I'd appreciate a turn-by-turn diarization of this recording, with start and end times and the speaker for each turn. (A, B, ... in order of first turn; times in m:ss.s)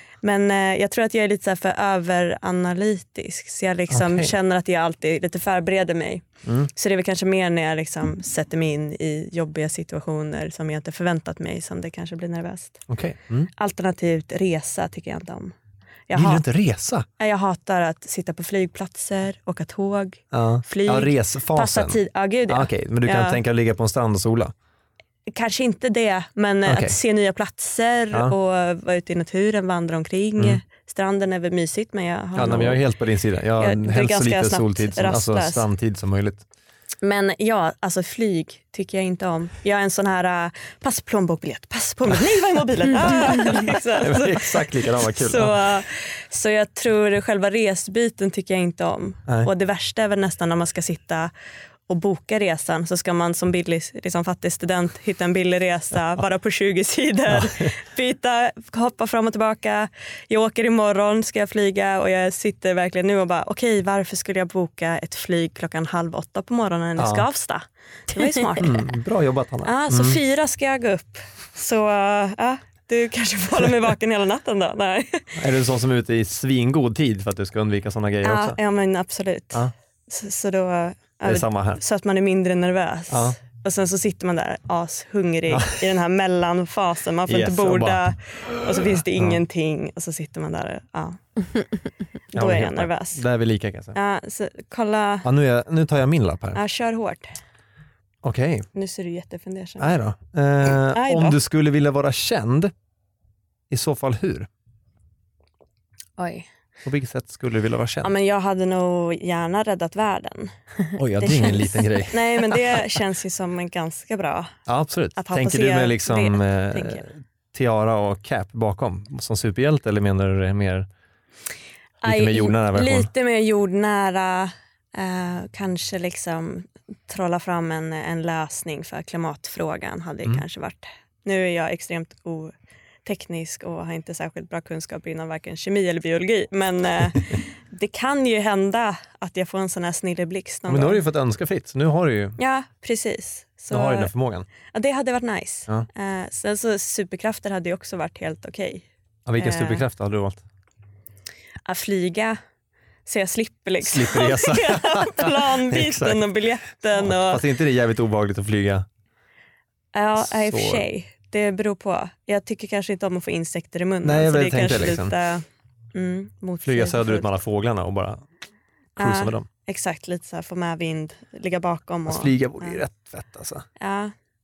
0:00.2-0:12.8 A
0:03.9-0:04.3 B
0:12.9-0:13.5 B
0:13.6-0:15.5 A
0:16.1-0:16.4 A
0:16.1-0:17.1 B
0:17.2-0:23.4 A
0:20.3-0:24.5 B
0:25.3-0:32.8 A
0:26.6-0:27.0 B
0:32.4-0:36.4 B
0:33.6-0:35.6 A
0:37.0-0:51.3 A
0:43.2-0:45.6 B
0:51.9-1:09.0 A
0:57.3-0:57.7 B
1:07.0-1:07.3 B
1:08.6-1:10.2 B
1:09.6-1:15.4 A
1:15.4-1:18.6 B
1:18.2-1:31.2 A
1:21.2-1:21.8 B
1:23.1-1:23.4 B
1:25.5-1:25.8 B
1:27.3-1:29.4 B
1:32.3-1:33.2 A
1:32.3-1:34.0 B
1:34.0-1:35.3 A
1:35.2-1:36.6 B
1:36.5-1:37.3 A
1:38.2-1:38.7 B
1:38.8-1:39.9 A
1:39.8-1:42.7 B
1:40.6-1:41.4 A
1:43.7-1:44.5 B
1:46.2-1:46.5 A
1:46.8-1:48.1 B
1:48.0-1:54.5 A
1:51.0-1:52.8 B
1:54.7-2:00.9 B
1:55.2-1:57.0 A
2:02.0-2:12.5 A
2:02.0-2:03.1 B
2:13.0-2:21.0 A
2:20.7-2:22.4 B
2:22.4-2:24.1 A
2:23.7-2:24.5 B
2:24.7-2:28.9 A
2:29.3-2:30.4 B
2:29.4-2:29.9 A
2:31.7-2:32.4 A
2:33.1-2:37.4 A
2:33.9-2:36.3 B
2:37.0-2:38.9 B
2:39.9-2:47.3 A
2:40.2-2:40.8 B
2:44.0-2:45.1 B
2:46.6-2:48.2 B
2:49.0-2:49.5 B
2:49.0-2:52.8 A
2:52.1-2:53.7 B
2:53.8-2:54.1 A